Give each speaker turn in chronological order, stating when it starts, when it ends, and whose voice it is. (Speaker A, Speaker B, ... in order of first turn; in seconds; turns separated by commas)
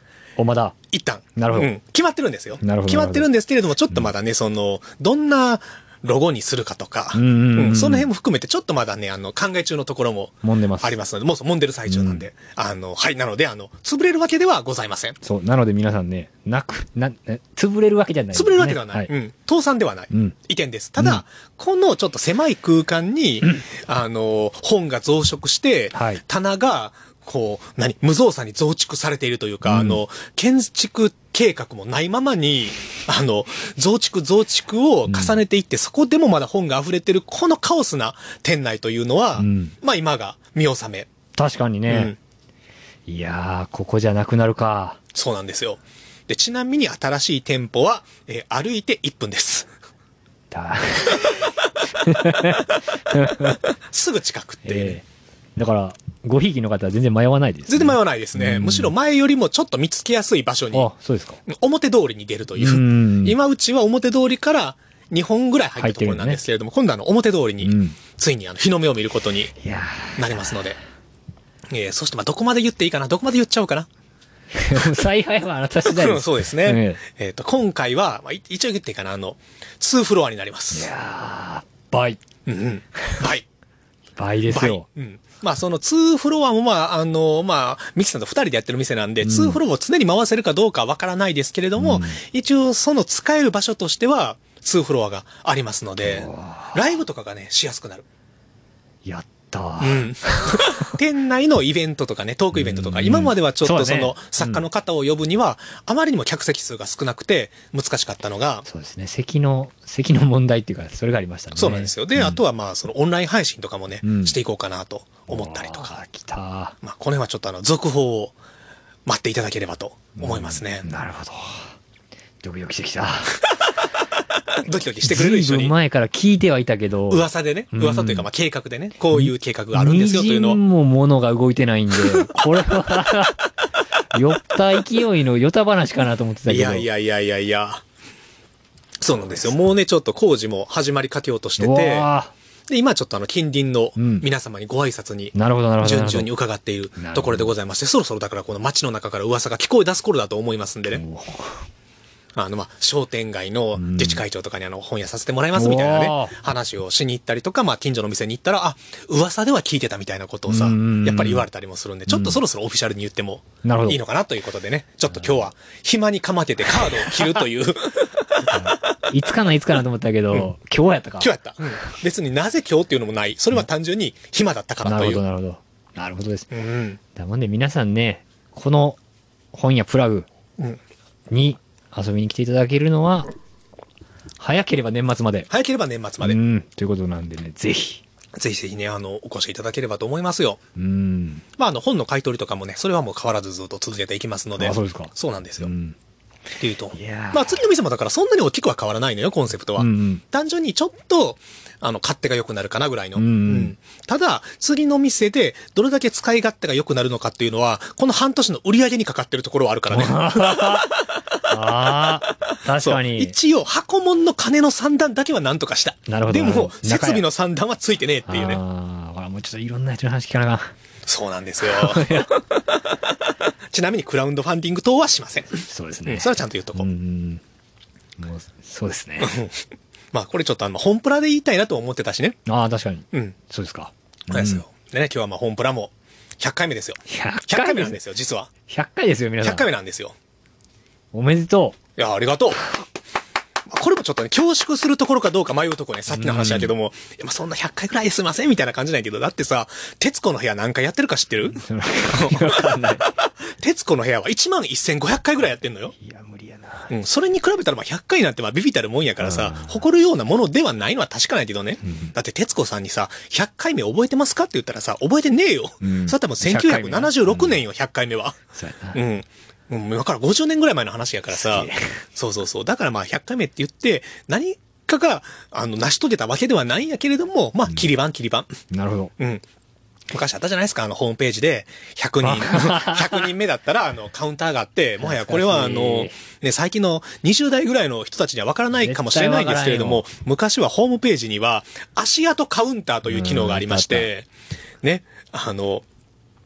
Speaker A: 0.4-0.8, Speaker B: 0.9-15.2, Speaker A: 1.4-1.7, Speaker A: 2.6-3.3, Speaker A: 7.1-8.1, Speaker A: 10.4-11.0, Speaker A: 11.9-12.2, Speaker A: 15.2-19.1, Speaker B: 18.3-41.1, Speaker A: 25.9-26.2, Speaker A: 29.6-30.0, Speaker A: 35.1-35.4, Speaker A: 39.4-39.7, Speaker A: 41.3-42.1, Speaker B: 41.9-42.2, Speaker A: 43.1-45.0, Speaker B: 45.1-49.7, Speaker A: 50.5-53.6, Speaker B: 53.4-55.0, Speaker A: 54.6-55.0, Speaker A: 55.5-58.9, Speaker B: 57.7-60.9, Speaker A: 60.7-61.4, Speaker B: 61.5-69.5, Speaker A: 62.6-63.4, Speaker A: 65.8-66.4, Speaker A: 67.6-68.0, Speaker A: 69.6-70.7, Speaker B: 70.2-70.8, Speaker B: 71.7-73.9, Speaker A: 74.5-77.0, Speaker B: 75.8-80.9, Speaker A: 80.7-82.2, Speaker B: 82.5-83.5, Speaker A: 83.0-83.2, Speaker A: 84.2-84.8, Speaker B: 84.5-98.0, Speaker A: 89.2-89.6, Speaker A: 91.8-92.2, Speaker A: 96.0-96.9, Speaker A: 99.0-100.8, Speaker B: 99.8-108.7, Speaker A: 102.5-104.6, Speaker A: 108.7-112.4, Speaker B: 111.5-116.0, Speaker A: 114.0-114.4, Speaker A: 115.3-116.8, Speaker B: 116.8-118.3, Speaker B: 119.0-120.9, Speaker A: 120.2-121.7, Speaker A: 122.4-123.4, Speaker B: 124.5-125.7, Speaker A: 125.0-128.3, Speaker B: 127.1-130.6, Speaker A: 129.1-133.5, Speaker B: 132.1-132.4, Speaker A: 134.1-136.9, Speaker B: 136.5-137.8, Speaker B: 139.0-142.1, Speaker A: 141.6-142.3, Speaker B: 142.7-151.0, Speaker A: 143.9-144.3, Speaker A: 145.3-146.3, Speaker A: 147.0-147.5, Speaker A: 150.9-151.7, Speaker B: 152.3-168.9, Speaker A: 153.8-154.2, Speaker A: 155.5-156.3, Speaker A: 160.5-161.5, Speaker A: 162.1-162.4, Speaker A: 163.6-164.0, Speaker A: 165.1-165.4, Speaker A: 166.9-167.3, Speaker A: 168.5-171.7, Speaker B: 171.2-175.2, Speaker A: 174.8-176.5, Speaker B: 176.5-177.0, Speaker A: 177.1-179.0, Speaker A: 179.5-180.3, Speaker A: 181.3-183.3, Speaker A: 184.4-185.5, Speaker B: 185.5-186.4, Speaker A: 186.2-188.0, Speaker B: 188.3-190.6, Speaker A: 190.8-191.4, Speaker B: 191.6-195.7, Speaker A: 194.6-195.9, Speaker B: 196.6-211.5, Speaker A: 196.9-197.6, Speaker A: 199.8-200.2, Speaker A: 203.1-203.7, Speaker A: 209.9-210.9, Speaker A: 211.5-213.3, Speaker B: 212.3-218.6, Speaker A: 216.1-217.2, Speaker A: 218.3-220.7, Speaker B: 221.1-226.9, Speaker A: 221.6-222.3, Speaker A: 225.7-227.4, Speaker A: 228.2-229.4, Speaker B: 229.2-229.6, Speaker B: 230.1-232.4, Speaker A: 232.4-234.6, Speaker B: 234.3-238.5, Speaker A: 237.1-238.0, Speaker A: 238.7-239.7, Speaker B: 239.4-240.1, Speaker A: 241.1-241.8, Speaker B: 242.0-242.7, Speaker B: 243.7-255.9, Speaker A: 246.1-246.7, Speaker A: 251.5-253.1, Speaker A: 255.9-256.9, Speaker B: 256.9-268.4, Speaker A: 259.2-259.8, Speaker A: 261.8-262.1, Speaker A: 265.8-267.6, Speaker A: 268.5-269.0, Speaker B: 268.9-278.6, Speaker A: 271.3-271.9, Speaker A: 278.7-279.1, Speaker B: 279.2-279.4, Speaker B: 280.1-294.3, Speaker A: 282.2-283.3, Speaker A: 285.0-286.2, Speaker A: 288.7-290.0, Speaker A: 293.1-294.1, Speaker B: 294.8-295.8